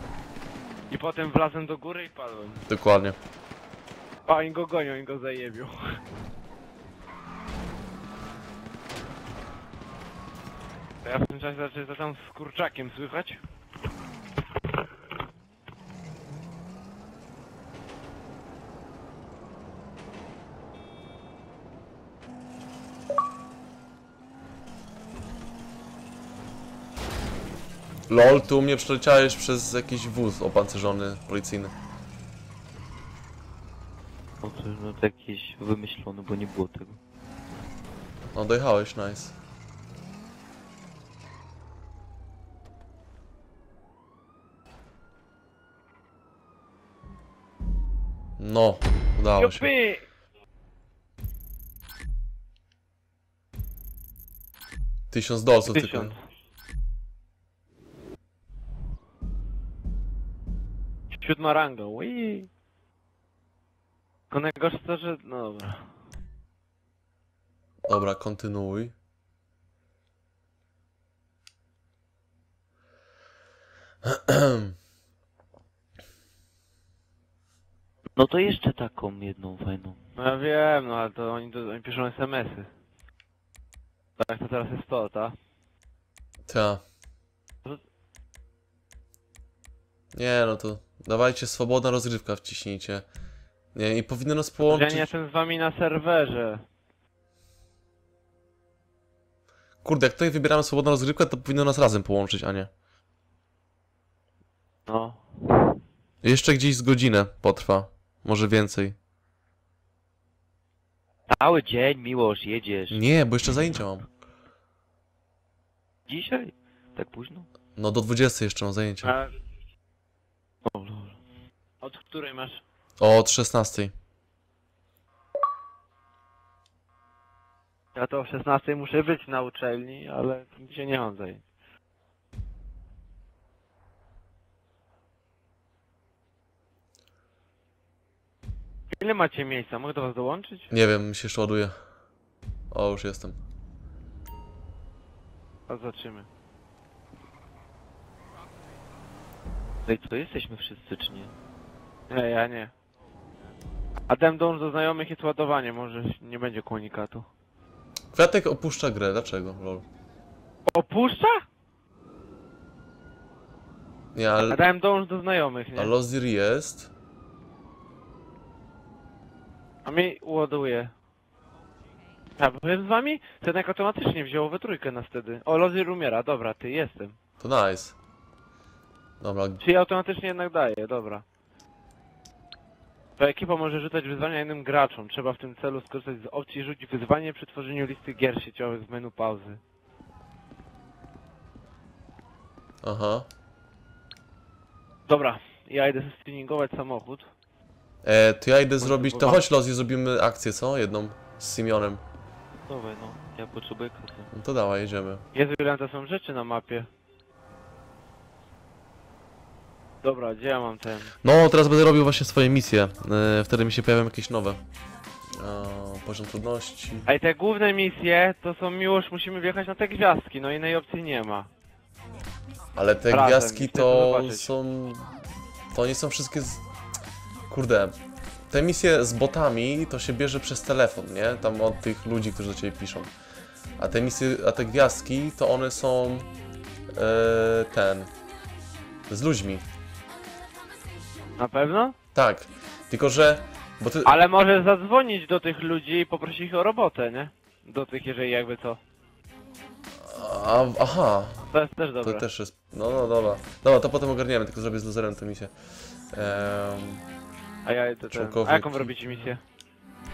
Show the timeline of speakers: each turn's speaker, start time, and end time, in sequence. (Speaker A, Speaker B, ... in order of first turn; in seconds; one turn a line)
Speaker A: 0.9-2.6
Speaker B: 2.7-3.2
Speaker A: 4.3-6.0
Speaker A: 11.0-13.4
Speaker B: 28.1-31.7
Speaker C: 34.4-37.0
Speaker B: 38.4-39.3
Speaker B: 48.4-49.7
Speaker A: 49.4-50.0
Speaker B: 55.1-56.1
Speaker A: 55.7-56.1
Speaker A: 61.2-62.5
Speaker A: 64.3-65.9
Speaker B: 67.9-68.9
Speaker B: 74.0-74.8
Speaker C: 78.2-80.0
Speaker A: 80.2-82.7
Speaker A: 84.2-85.3
Speaker B: 86.5-86.8
Speaker B: 90.1-93.1
Speaker B: 93.7-95.1
Speaker A: 94.6-96.6
Speaker B: 99.8-102.7
Speaker A: 104.9-105.2
Speaker B: 106.2-109.0
Speaker C: 111.3-113.0
Speaker B: 112.9-114.1
Speaker C: 116.1-117.5
Speaker B: 117.8-119.2
Speaker A: 119.0-119.3
Speaker C: 120.7-121.2
Speaker A: 121.8-122.6
Speaker B: 123.0-123.9
Speaker A: 128.0-131.4
Speaker A: 138.9-140.7
Speaker B: 140.7-141.8
Speaker B: 142.7-143.4
Speaker A: 145.7-146.3
Speaker C: 149.9-151.3
Speaker A: 152.1-152.7
Speaker A: 154.1-157.3
Speaker B: 158.1-159.9
Speaker A: 160.7-161.4
Speaker B: 164.1-164.6
Speaker A: 164.5-165.9
Speaker B: 165.8-166.9
Speaker A: 169.8-170.9
Speaker A: 172.4-177.2
Speaker B: 177.4-178.0
Speaker B: 179.2-179.6
Speaker A: 179.6-181.2
Speaker A: 183.2-189.6
Speaker B: 192.8-193.3
Speaker A: 195.1-197.3
Speaker B: 198.0-202.0
Speaker A: 198.8-199.4
Speaker C: 202.7-204.3
Speaker B: 204.3-205.2
Speaker A: 205.3-206.9
Speaker A: 210.0-211.1
Speaker B: 211.2-214.6
Speaker B: 215.4-217.1
Speaker A: 217.1-221.5
Speaker B: 222.8-225.1
Speaker A: 223.1-224.5
Speaker B: 225.7-226.6
Speaker B: 227.5-228.0
Speaker B: 228.5-233.1
Speaker B: 233.8-236.3
Speaker B: 236.9-238.1
Speaker B: 239.1-239.7
Speaker A: 241.4-242.0
Speaker B: 242.2-244.1
Speaker A: 244.0-248.8
Speaker B: 250.0-251.4
Speaker A: 251.5-252.3
Speaker B: 252.0-255.5
Speaker B: 256.1-257.0
Speaker A: 257.6-259.4
Speaker B: 258.1-258.9